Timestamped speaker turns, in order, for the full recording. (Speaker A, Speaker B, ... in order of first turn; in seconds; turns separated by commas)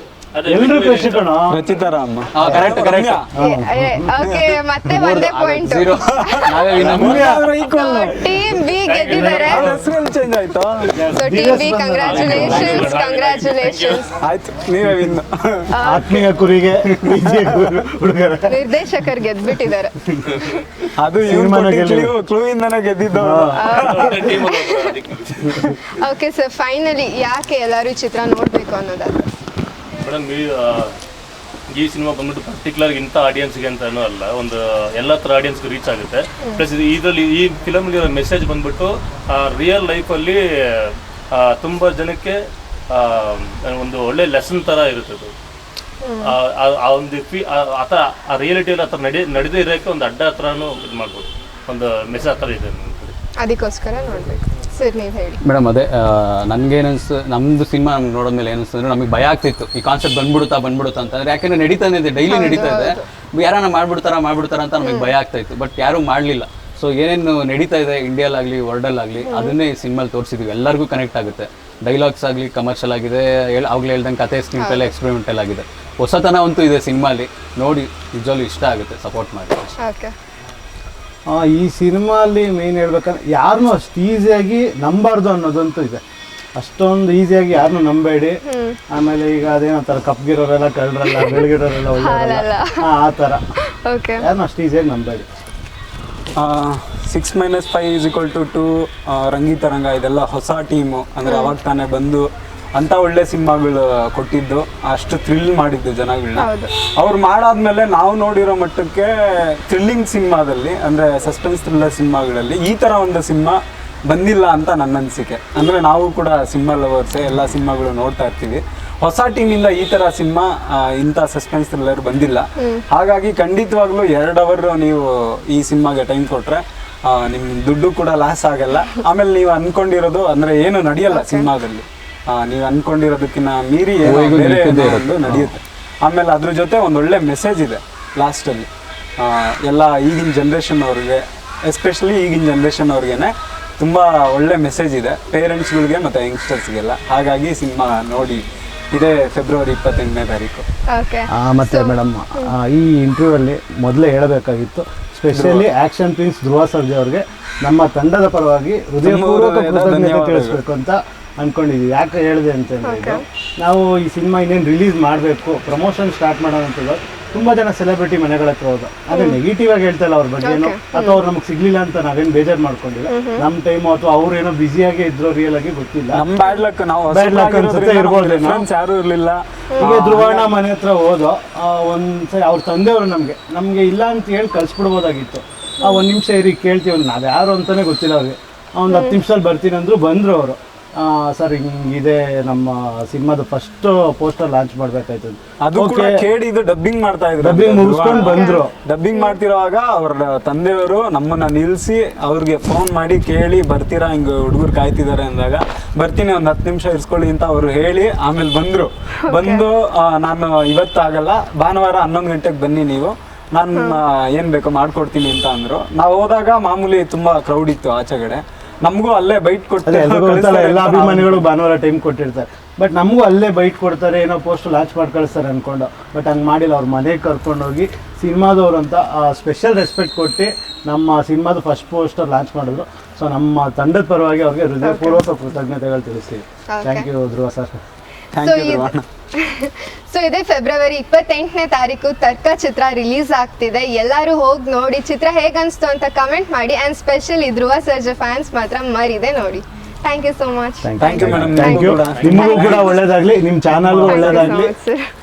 Speaker A: 0.3-1.6, Speaker B: 0.5-1.6, Speaker C: 1.5-3.3, Speaker D: 2.3-3.3, Speaker B: 3.4-4.1, Speaker E: 3.4-6.7, Speaker C: 4.2-4.6, Speaker D: 4.9-7.4, Speaker C: 6.1-8.7, Speaker B: 6.8-7.5, Speaker E: 7.6-9.8, Speaker A: 8.8-9.7, Speaker B: 9.0-9.8, Speaker C: 9.4-10.9, Speaker B: 10.9-13.0, Speaker E: 11.1-14.1, Speaker A: 12.0-14.1, Speaker C: 14.2-15.8, Speaker E: 15.7-16.3, Speaker B: 15.8-18.6, Speaker C: 16.9-17.9, Speaker E: 18.5-20.6, Speaker C: 21.0-24.3, Speaker B: 21.2-22.1, Speaker B: 23.2-23.7, Speaker E: 23.6-25.0, Speaker A: 23.7-25.8, Speaker E: 25.8-29.3, Speaker A: 30.0-30.9, Speaker A: 31.7-45.3, Speaker E: 46.0-46.4, Speaker A: 46.2-53.1, Speaker E: 53.4-55.4, Speaker D: 55.4-79.8, Speaker E: 62.3-63.0, Speaker E: 64.8-65.2, Speaker E: 69.3-69.6, Speaker E: 74.6-74.9, Speaker E: 79.8-80.1, Speaker B: 81.3-86.0, Speaker B: 86.6-88.4, Speaker E: 88.5-88.8, Speaker B: 88.9-93.4, Speaker E: 91.2-91.5, Speaker E: 92.0-92.8, Speaker E: 93.8-94.3, Speaker B: 94.2-95.3, Speaker C: 96.4-150.7, Speaker E: 101.2-101.5, Speaker E: 106.4-106.7, Speaker E: 131.1-131.5, Speaker D: 134.0-135.5, Speaker E: 150.9-152.5, Speaker B: 151.3-176.2, Speaker C: 155.3-155.7, Speaker C: 159.0-160.6, Speaker E: 162.8-163.2, Speaker E: 169.1-169.4, Speaker E: 170.4-171.2, Speaker E: 173.1-173.5, Speaker C: 176.1-180.6, Speaker B: 177.1-178.7, Speaker B: 179.8-196.2, Speaker E: 188.9-189.2, Speaker C: 195.6-221.4, Speaker B: 197.4-198.7, Speaker E: 198.1-198.6, Speaker E: 209.3-209.6, Speaker B: 219.9-237.8, Speaker E: 234.8-235.2, Speaker E: 236.7-237.1, Speaker C: 238.3-239.0, Speaker E: 238.4-253.0, Speaker B: 250.8-254.7, Speaker C: 251.0-253.1, Speaker A: 252.2-252.5, Speaker D: 253.9-254.5, Speaker E: 254.1-255.1